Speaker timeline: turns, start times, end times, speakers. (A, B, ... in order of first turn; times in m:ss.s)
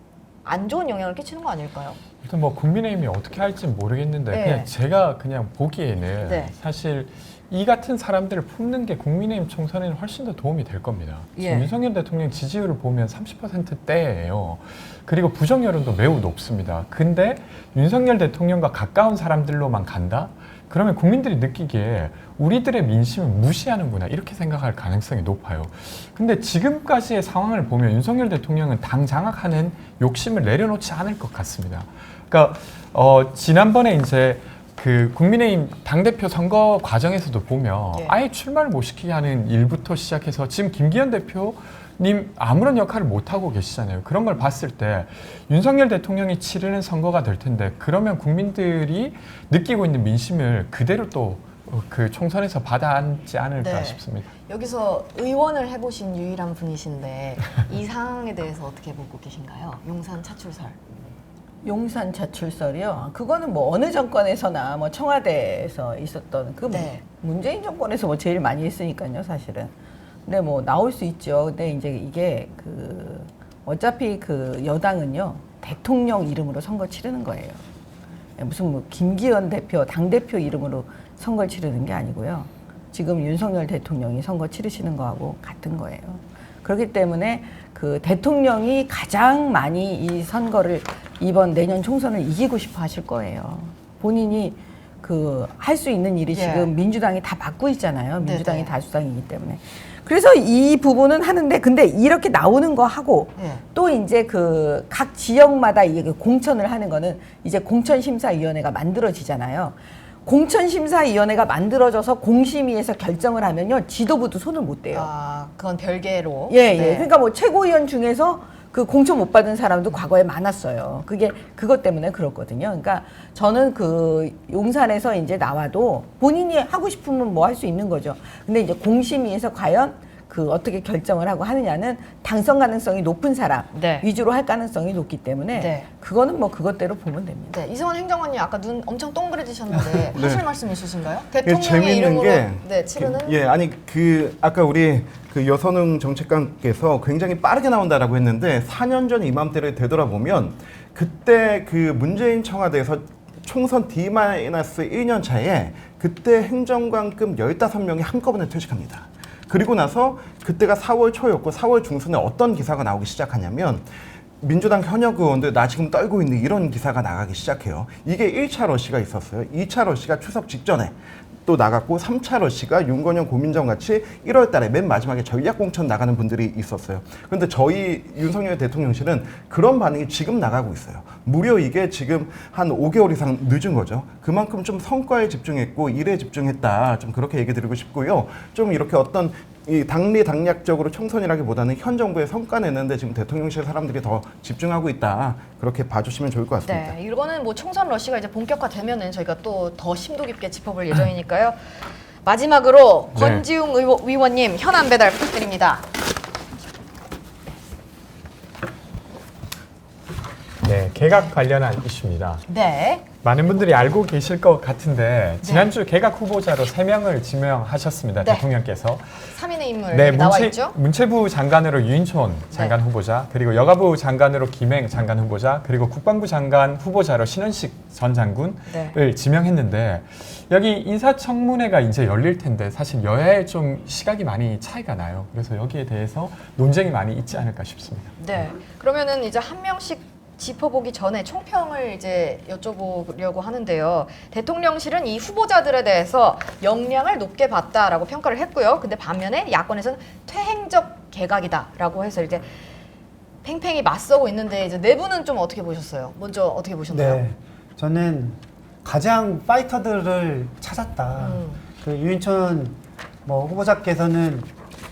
0:00.4-0:02.0 A
0:02.2-0:54.3 B
0:04.3-0:04.7 A
0:06.2-0:06.5 A
0:11.4-0:11.7 A
0:53.6-1:00.8 A
1:01.6-1:09.7 C
1:06.7-1:07.0 A
1:10.2-1:17.6 C
1:18.4-1:55.1 C
1:36.3-1:36.7 A
1:38.2-1:38.7 A
1:43.4-1:43.6 A
1:54.9-1:57.1 A
1:56.5-2:17.6 C
2:13.7-2:14.0 A
2:15.5-2:15.9 A
2:17.5-2:23.4 A
2:20.1-2:20.5 D
2:21.4-2:43.8 D
2:44.4-3:17.0 D
3:16.6-3:25.8 A
3:23.1-3:23.4 B
3:30.6-3:32.4 B
3:32.5-3:33.0 A
3:33.2-3:39.3 B
3:35.4-3:35.7 A
3:39.3-3:40.8 A
3:39.9-3:58.5 B
3:48.7-3:49.0 A
3:58.2-4:12.6 A
4:13.4-4:17.2 A
4:16.9-4:24.5 E
4:21.2-4:21.6 A